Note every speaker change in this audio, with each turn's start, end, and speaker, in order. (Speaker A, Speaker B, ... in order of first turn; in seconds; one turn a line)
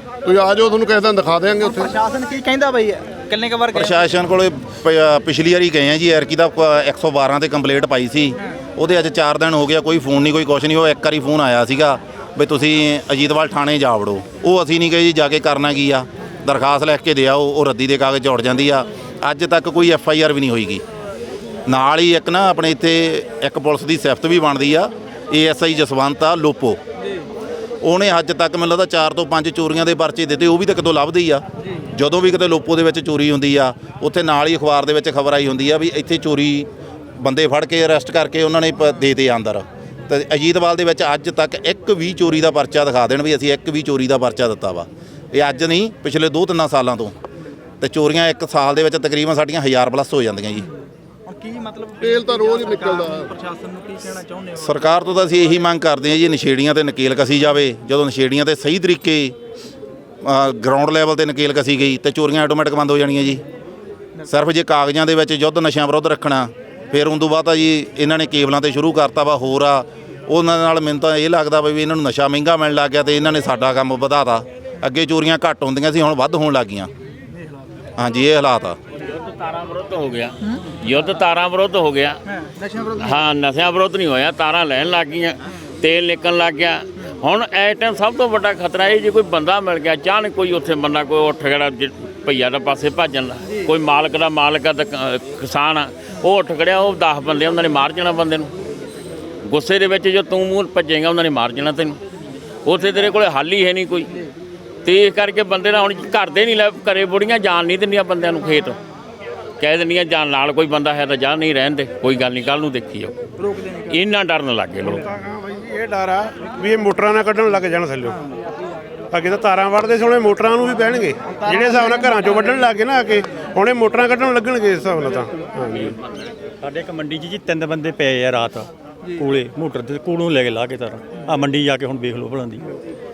Speaker A: 0.2-1.9
Speaker B: 1.6-4.1
Speaker C: 3.7-20.8
Speaker C: 21.7-26.8
Speaker B: 27.0-27.3
Speaker C: 27.8-47.1
Speaker B: 31.6-31.9
Speaker C: 47.8-50.6
Speaker B: 50.5-55.3
Speaker A: 52.1-53.3
Speaker C: 54.6-59.4
Speaker C: 60.2-63.4
Speaker C: 64.3-76.9
Speaker B: 77.2-77.7
Speaker C: 78.0-78.8
Speaker D: 79.0-82.2
Speaker B: 80.5-80.7
Speaker B: 82.2-83.2
Speaker D: 83.0-98.5
Speaker B: 93.4-93.7
Speaker D: 99.4-102.0
Speaker D: 102.6-104.1
Speaker B: 104.0-104.3
Speaker D: 104.8-108.8
Speaker D: 109.6-113.2
Speaker B: 113.4-114.0
Speaker D: 113.9-115.0
Speaker E: 114.8-118.2
Speaker B: 118.0-118.4
Speaker E: 119.1-126.0
Speaker B: 120.6-123.2
Speaker D: 125.7-126.1
Speaker F: 126.6-128.7
Speaker B: 129.0-129.4
Speaker F: 129.2-132.7
Speaker B: 131.1-131.4